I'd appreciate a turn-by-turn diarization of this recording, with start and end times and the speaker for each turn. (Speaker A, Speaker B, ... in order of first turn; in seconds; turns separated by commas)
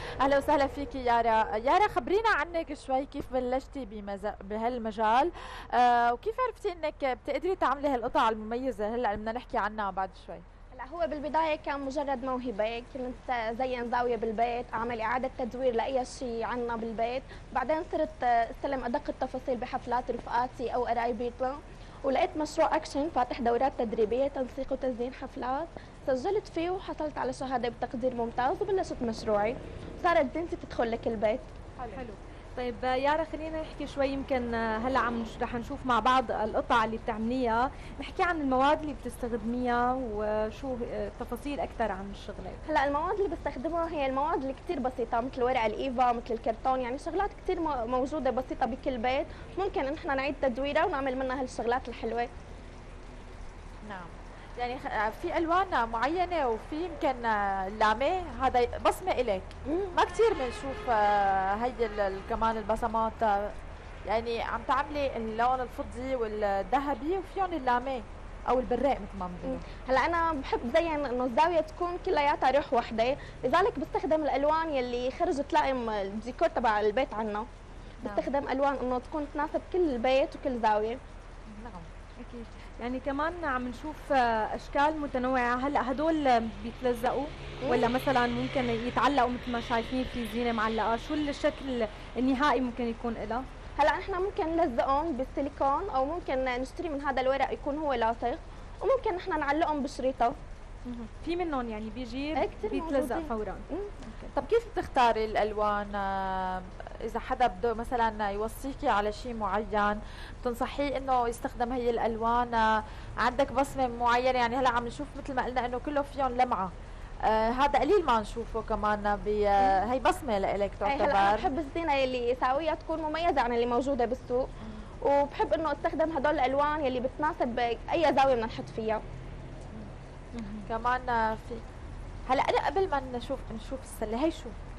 Speaker A: 0.2-10.4, Speaker B: 10.8-31.5, Speaker C: 31.9-42.6, Speaker B: 42.6-52.3, Speaker A: 53.9-59.5, Speaker B: 59.7-60.0, Speaker A: 60.1-63.4, Speaker A: 64.1-69.6, Speaker B: 69.4-77.5, Speaker B: 78.0-81.0, Speaker C: 82.2-93.4, Speaker B: 87.6-87.9, Speaker B: 93.8-100.3, Speaker C: 100.9-104.3, Speaker B: 102.4-103.9, Speaker A: 104.5-112.7, Speaker A: 113.2-116.7, Speaker A: 117.3-121.5, Speaker B: 119.6-119.9, Speaker B: 120.8-124.5, Speaker B: 125.0-129.0, Speaker C: 130.3-130.7, Speaker A: 130.7-131.3, Speaker A: 132.3-134.5